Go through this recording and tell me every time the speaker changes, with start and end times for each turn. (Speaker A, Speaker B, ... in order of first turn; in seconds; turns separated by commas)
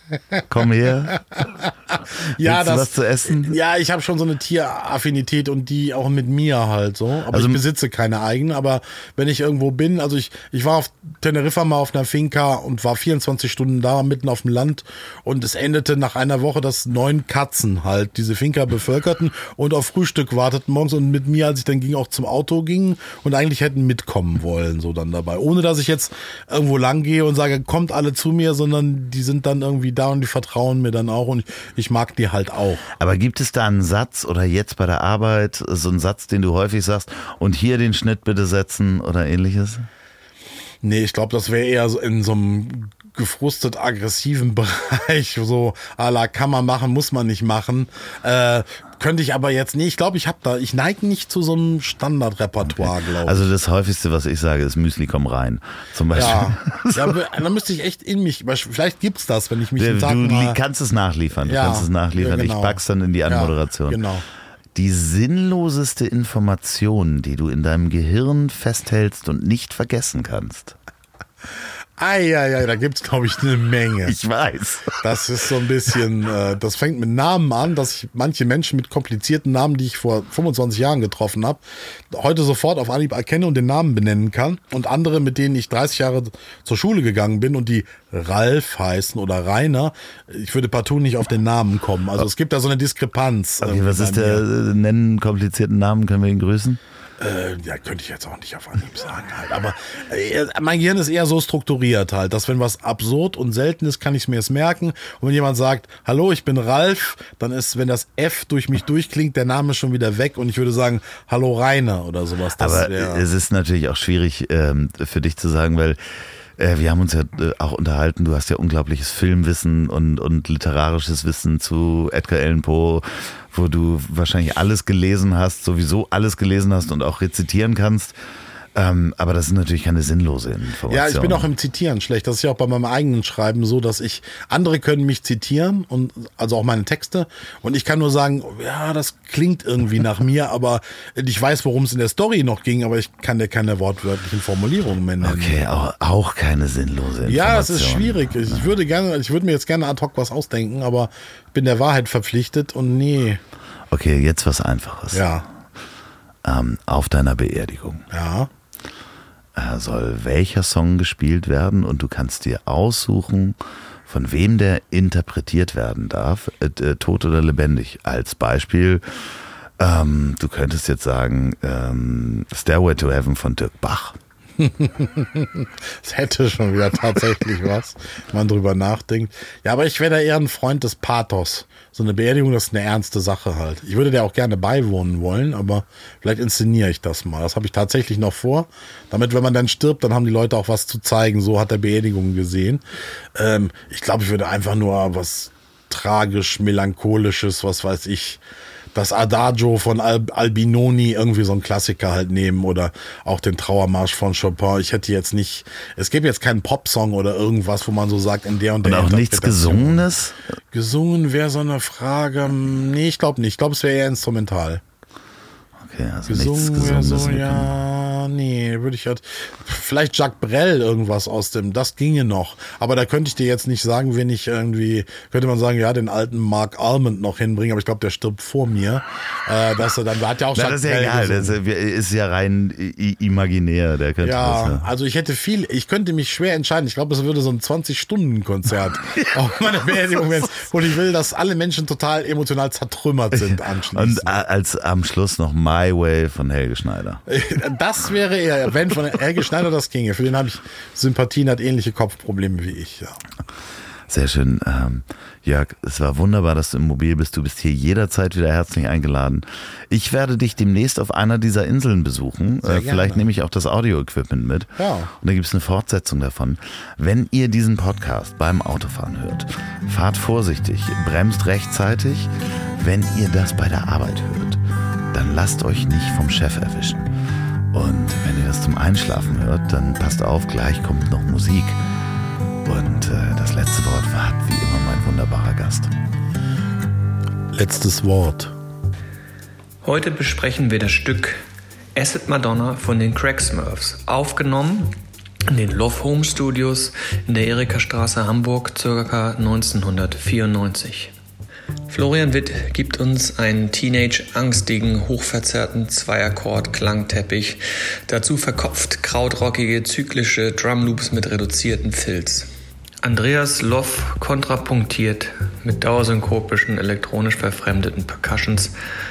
Speaker A: 0.5-1.5, Speaker B: 1.4-32.9, Speaker A: 2.4-3.6, Speaker A: 7.3-7.6, Speaker A: 33.0-39.9, Speaker B: 40.8-53.4, Speaker A: 52.6-57.2, Speaker B: 56.1-60.6, Speaker A: 59.8-64.0, Speaker B: 61.5-64.2, Speaker A: 64.7-70.8, Speaker B: 72.0-74.2, Speaker A: 74.0-75.0, Speaker B: 75.0-94.4, Speaker A: 93.6-96.8, Speaker B: 97.2-113.2, Speaker A: 112.6-116.0, Speaker A: 116.6-128.2, Speaker A: 128.8-131.5, Speaker B: 130.9-145.6, Speaker A: 145.2-148.7, Speaker B: 147.2-153.4, Speaker A: 153.9-155.3, Speaker B: 155.1-155.5, Speaker A: 156.4-158.1, Speaker B: 158.1-158.5, Speaker A: 159.6-169.3, Speaker A: 169.8-174.2, Speaker B: 174.6-192.8, Speaker B: 193.3-198.4, Speaker B: 198.9-210.0, Speaker A: 208.8-210.4, Speaker B: 210.7-214.8, Speaker A: 215.8-217.7, Speaker B: 216.3-231.6, Speaker A: 230.5-234.9, Speaker B: 234.2-244.4, Speaker A: 240.0-240.3, Speaker A: 243.3-247.2, Speaker B: 247.3-253.2, Speaker A: 254.1-274.6, Speaker B: 262.6-263.2, Speaker B: 264.8-265.1, Speaker A: 275.1-277.1, Speaker A: 277.7-281.8, Speaker A: 282.6-285.9, Speaker B: 287.5-288.5, Speaker C: 289.8-291.4, Speaker C: 291.9-294.9, Speaker C: 295.5-301.1, Speaker C: 301.9-312.5, Speaker C: 313.0-318.8